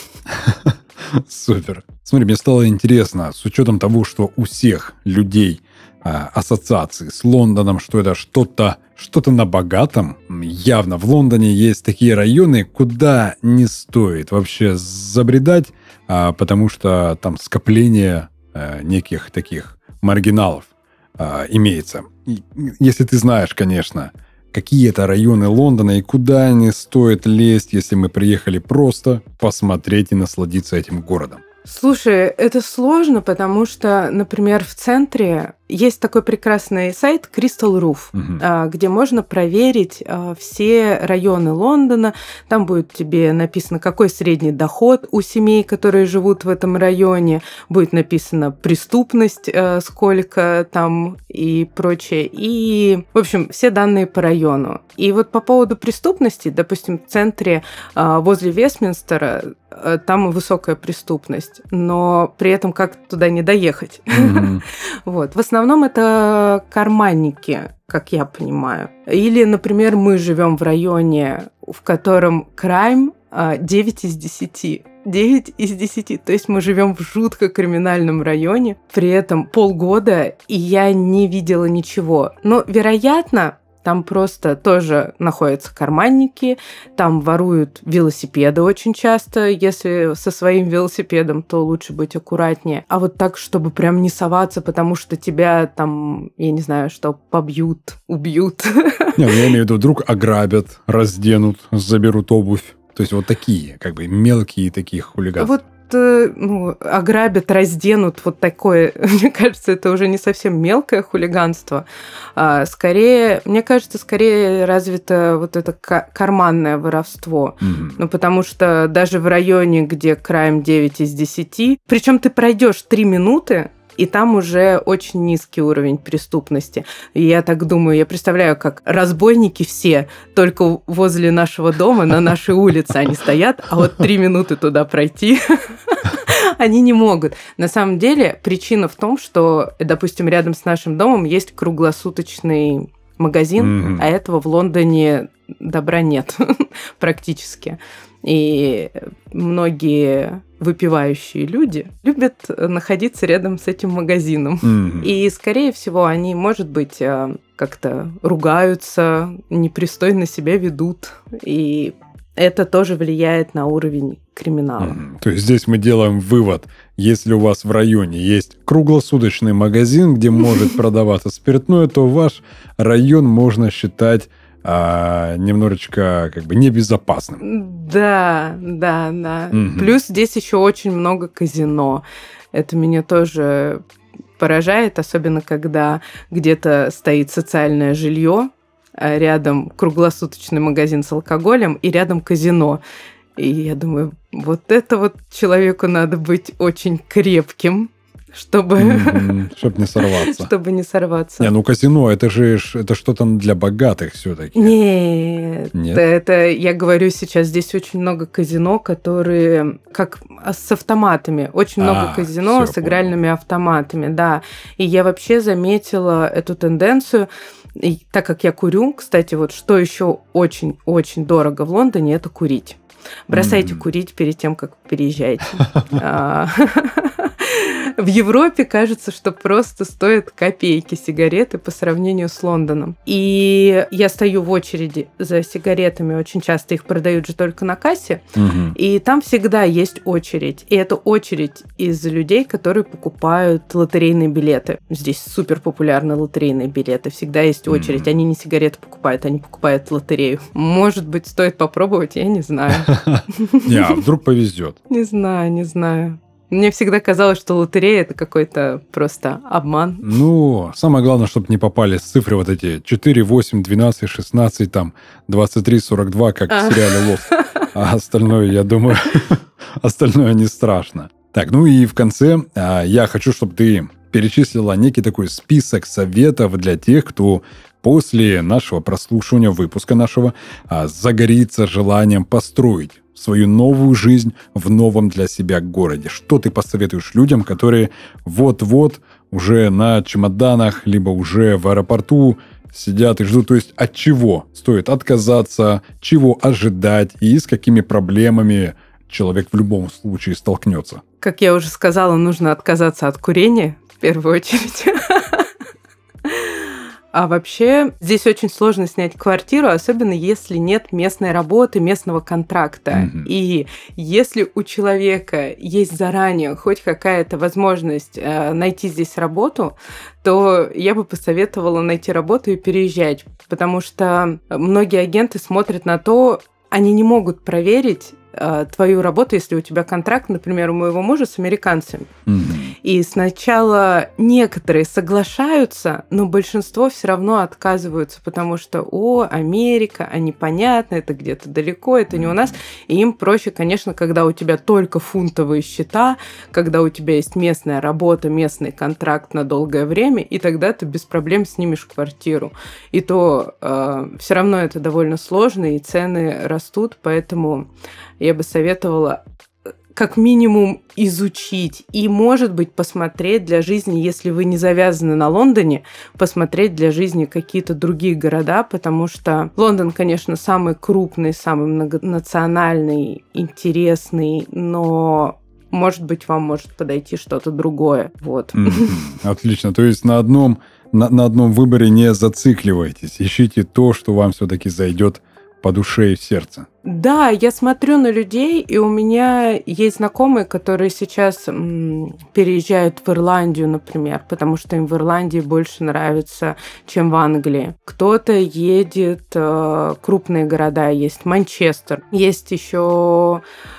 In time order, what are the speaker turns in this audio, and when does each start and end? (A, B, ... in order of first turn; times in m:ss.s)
0:00.4-0:31.4 A
0:31.6-1:39.4 B
0:38.1-0:38.4 A
1:04.1-1:04.6 A
1:39.2-1:45.5 A
1:45.4-2:45.0 B
1:57.6-1:58.0 A
2:23.6-2:24.1 A
2:34.6-2:35.1 A
2:44.8-2:57.4 A
2:57.4-3:03.8 B
2:59.5-3:00.0 A
3:04.4-3:12.8 B
3:13.4-3:19.3 B
3:18.8-3:20.5 A
3:20.0-3:21.5 B
3:21.4-3:24.7 A
3:24.5-4:14.0 B
3:25.7-3:26.0 A
3:31.8-3:33.1 A
3:43.3-3:43.8 A
3:58.4-3:58.8 A
4:07.7-4:08.1 A
4:12.8-4:14.8 A
4:14.9-4:20.1 B
4:20.0-5:01.0 A
4:26.5-4:27.7 B
5:01.2-5:05.5 B
5:06.2-5:32.1 B
5:12.9-5:13.3 A
5:32.3-5:32.7 A
5:32.8-5:57.7 B
5:42.1-5:42.5 A
5:58.2-5:59.2 B
5:59.9-6:19.1 B
6:18.5-6:26.6 A
6:26.8-6:43.4 B